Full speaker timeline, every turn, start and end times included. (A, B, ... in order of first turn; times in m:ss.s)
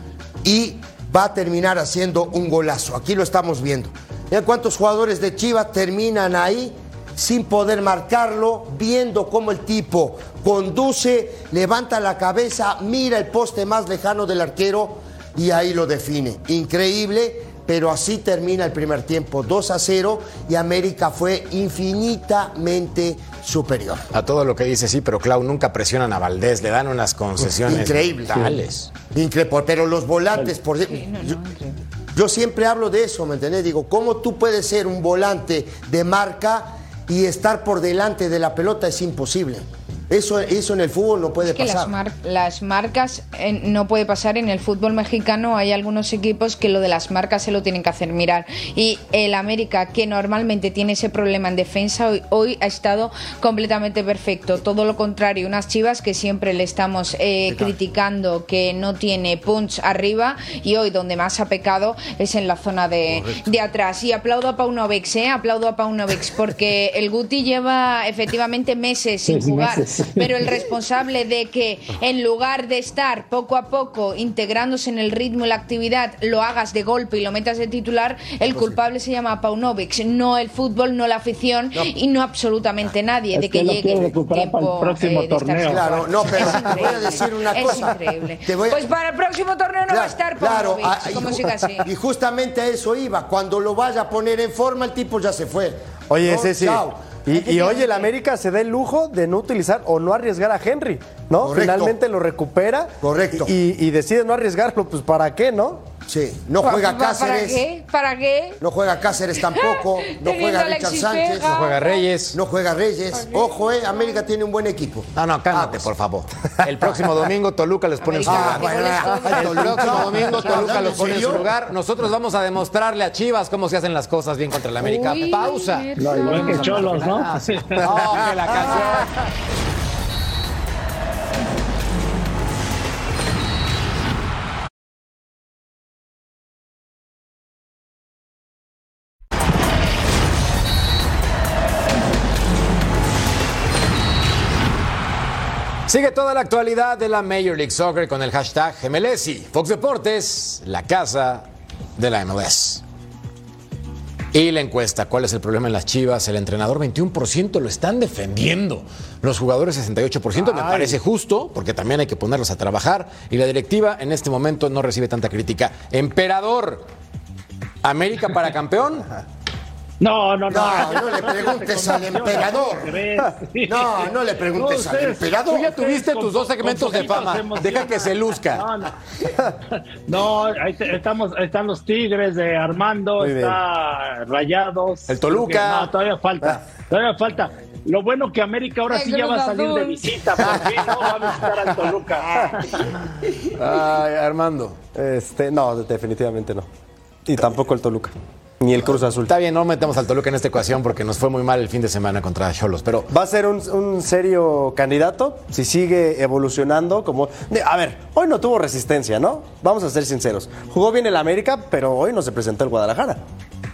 0:00.4-0:24.0 A
0:24.1-0:28.9 B
0:27.5-0:31.4 A
0:30.9-0:31.8 C
0:32.1-0:41.9 A
0:41.4-1:31.9 C
1:03.1-1:03.5 B
1:09.2-1:10.4 D
1:18.5-1:18.8 A
1:23.3-1:27.1 D
1:25.7-1:28.9 A
1:29.9-1:37.2 A
1:36.1-1:45.8 E
1:37.3-1:38.1 C
1:41.4-1:42.0 A
1:43.0-1:43.5 A
1:46.1-1:47.6 A
1:46.6-1:48.6 C
1:48.6-1:51.5 A
1:49.4-1:52.0 C
1:51.4-1:52.4 B
1:52.3-1:55.9 A
1:53.1-1:54.2 C
1:55.2-2:09.1 B
1:58.0-2:00.8 C
1:58.2-2:01.5 A
2:04.8-2:07.1 C
2:06.0-2:07.9 D
2:08.6-2:09.0 C
2:25.9-2:32.8 B
2:34.3-2:46.8 B
2:40.4-2:41.0 E
2:47.8-2:49.1 B
2:50.0-2:58.9 D
2:50.5-2:52.9 A
2:53.6-2:55.6 A
2:55.4-2:58.6 B
2:59.7-3:12.8 D
3:03.2-3:03.6 E
3:05.1-3:05.9 B
3:08.9-3:10.0 C
3:13.5-3:14.8 B
3:14.9-3:16.7 E
3:17.2-3:19.3 E
3:19.3-3:23.1 B
3:23.1-3:33.2 E